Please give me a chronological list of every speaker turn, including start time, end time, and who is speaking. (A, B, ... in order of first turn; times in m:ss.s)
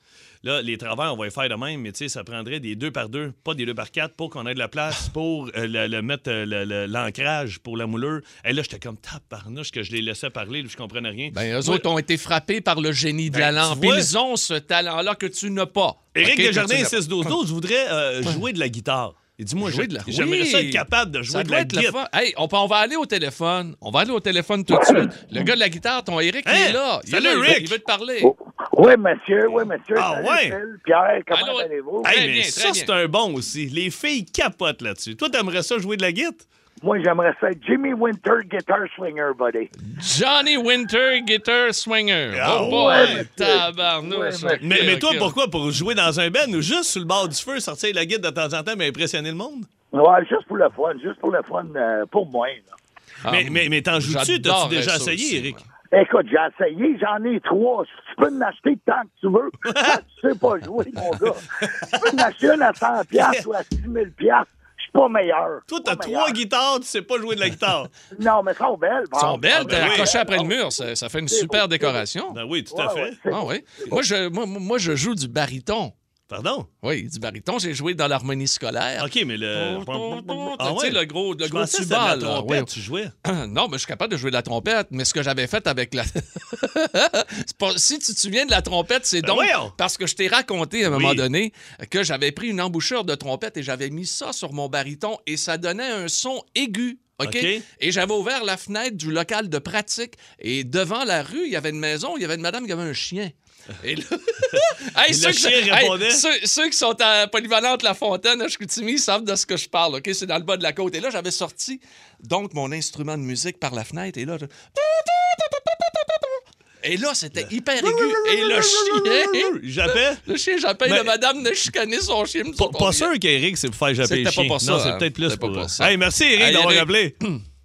0:00.4-0:11.8 A
0:11.3-0:17.3 B
0:13.3-0:14.1 A
0:16.1-0:22.0 A
0:19.6-0:28.3 B
0:26.4-0:27.8 A
0:28.2-0:32.2 C
0:29.9-0:30.6 A
0:31.3-0:32.9 B
0:32.0-0:36.4 A
0:36.8-0:39.7 C
0:39.8-0:45.3 B
0:42.3-0:43.2 A
0:42.6-0:44.9 C
0:44.6-0:49.7 A
0:49.9-0:52.7 C
0:53.2-0:55.6 B
0:53.3-0:55.6 A
0:55.9-1:06.4 C
0:59.7-1:00.0 A
1:03.1-1:03.4 A
1:05.7-1:07.9 A
1:08.1-1:12.0 C
1:09.1-1:12.4 B
1:09.5-1:10.1 A
1:12.3-1:13.2 A
1:12.7-1:14.0 C
1:13.3-1:15.9 B
1:16.3-1:16.7 A
1:16.8-1:22.7 B
1:19.0-1:23.1 A
1:23.2-2:03.1 B
1:29.2-1:29.7 A
1:30.8-1:31.2 A
1:37.2-1:37.6 A
1:44.6-1:46.2 A
1:57.8-2:00.2 A
2:00.8-2:01.1 A
2:02.6-2:07.2 A
2:04.0-2:07.4 B